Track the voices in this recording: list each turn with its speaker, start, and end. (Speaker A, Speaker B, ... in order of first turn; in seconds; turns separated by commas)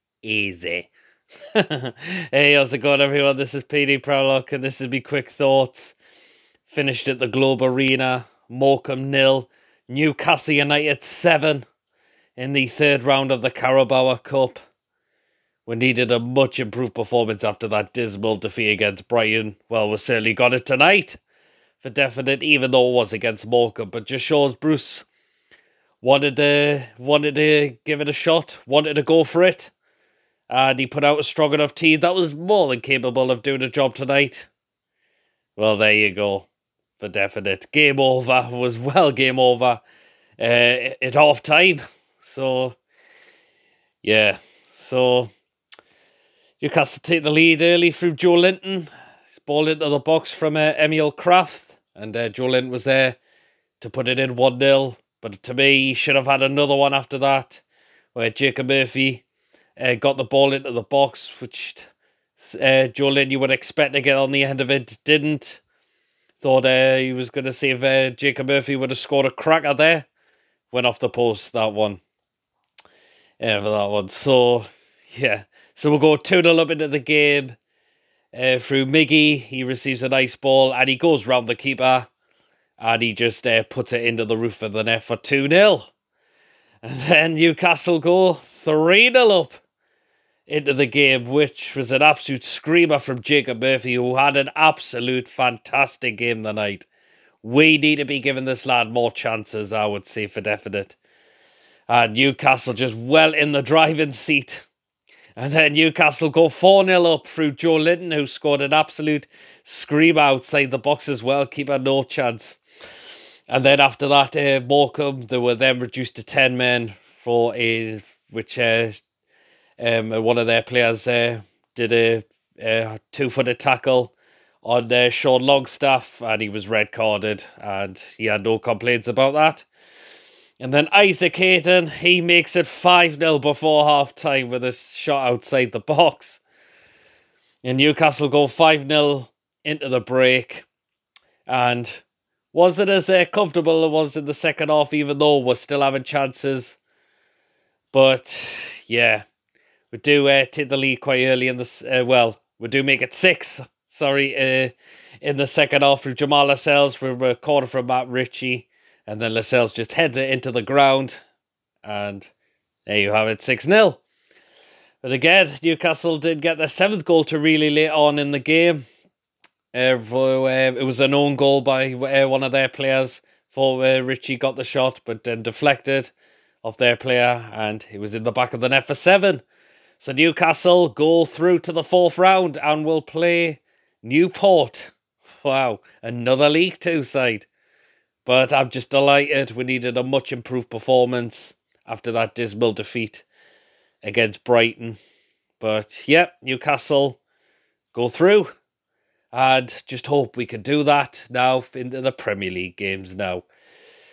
Speaker A: 0.2-0.9, Speaker A: 1.6-6.0, Speaker A: 6.7-11.7, Speaker A: 12.4-14.6, Speaker A: 15.7-21.2, Speaker A: 21.8-25.1, Speaker A: 26.0-29.7, Speaker A: 30.5-34.5, Speaker A: 35.6-39.8, Speaker A: 40.4-42.8, Speaker A: 44.0-45.3, Speaker A: 46.6-53.2, Speaker A: 53.8-59.2, Speaker A: 59.8-65.6, Speaker A: 66.4-70.1, Speaker A: 70.7-72.0, Speaker A: 73.4-77.6, Speaker A: 78.3-82.1, Speaker A: 82.8-85.9, Speaker A: 86.8-89.6, Speaker A: 90.5-96.9, Speaker A: 97.4-101.0, Speaker A: 101.9-104.7, Speaker A: 105.4-112.6, Speaker A: 113.5-119.0, Speaker A: 119.8-129.7, Speaker A: 130.6-136.4, Speaker A: 137.6-140.7, Speaker A: 141.5-146.8, Speaker A: 147.9-149.3, Speaker A: 149.9-161.2, Speaker A: 161.8-162.3, Speaker A: 162.9-164.0, Speaker A: 165.0-168.8, Speaker A: 169.7-179.4, Speaker A: 180.0-187.5, Speaker A: 188.2-193.2, Speaker A: 194.0-195.0, Speaker A: 195.6-197.2, Speaker A: 197.9-198.6, Speaker A: 199.3-203.5